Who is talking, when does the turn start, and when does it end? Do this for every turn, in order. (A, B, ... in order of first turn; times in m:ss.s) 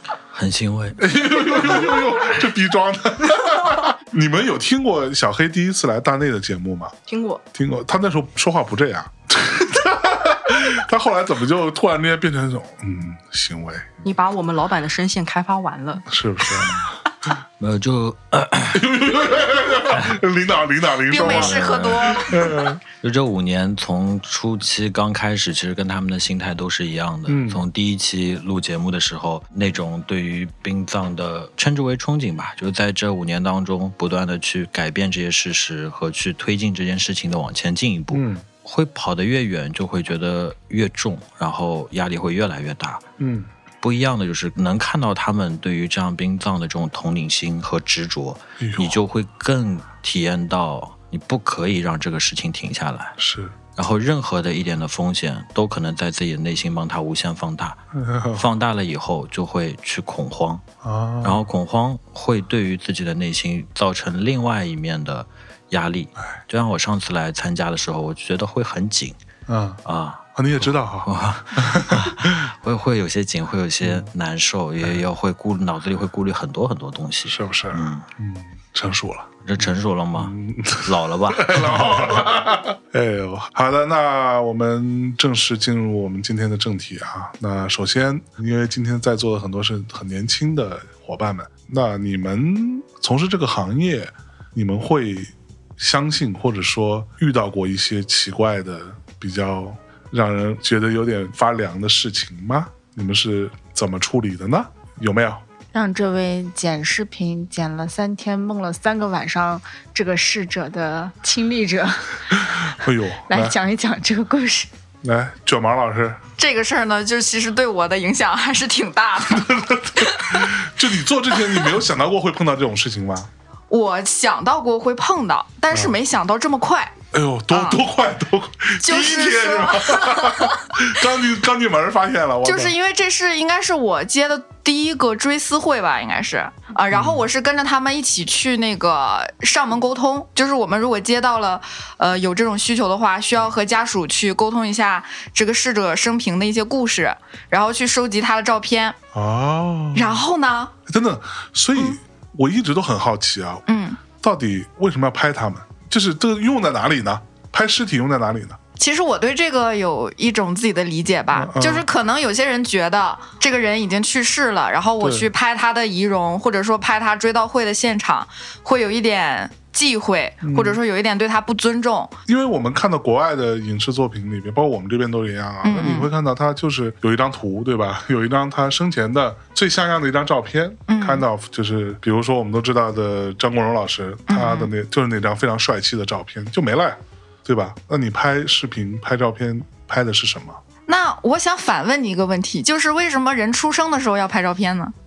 0:00.3-0:01.9 A
0:01.0-0:06.9 B
0:07.1-0:07.4 C
0:07.6-0:13.9 B
0:14.0-0:16.0 C
0:16.1-0:17.0 B
0:17.6-0:18.9 A
0:18.7-0:22.8 B
0:21.1-0:22.5 D
0:21.2-0:22.1 A
0:23.0-0:43.0 A
0:27.3-0:27.6 B
0:38.1-0:38.4 B
0:43.2-0:43.5 B
0:43.8-0:53.2 A
0:48.6-0:49.0 B
0:53.2-0:53.6 B
0:53.8-0:57.8 A
0:57.9-0:58.5 B
0:58.4-1:00.6 A
1:00.8-1:01.4 B
1:01.2-1:09.2 A
1:09.5-1:09.8 B
1:09.8-1:18.0 A
1:10.4-1:12.5 B
1:13.8-1:14.1 B
1:17.2-1:45.4 B
1:19.4-1:22.3 A
1:45.7-1:52.2 E
1:52.5-1:53.6 B
1:53.3-1:54.7 E
1:55.0-1:56.2 B
1:56.4-2:00.5 D
1:59.3-2:03.3 B
2:03.7-2:07.0 D
2:05.7-2:06.0 B
2:07.1-2:12.8 B
2:07.5-2:07.8 D
2:08.8-2:10.6 D
2:12.4-2:29.0 D
2:16.9-2:17.3 B
2:29.1-2:30.2 B
2:30.0-2:30.8 D
2:30.9-2:33.6 B
2:33.7-2:34.0 D
2:34.2-2:38.6 B
2:38.8-2:52.2 D
2:41.3-2:41.9 B
2:45.0-2:45.3 B
2:50.4-2:50.8 B
2:52.3-3:10.6 B
2:55.6-2:56.1 D
3:00.9-3:01.2 D
3:04.3-3:04.7 D
3:10.9-3:14.9 D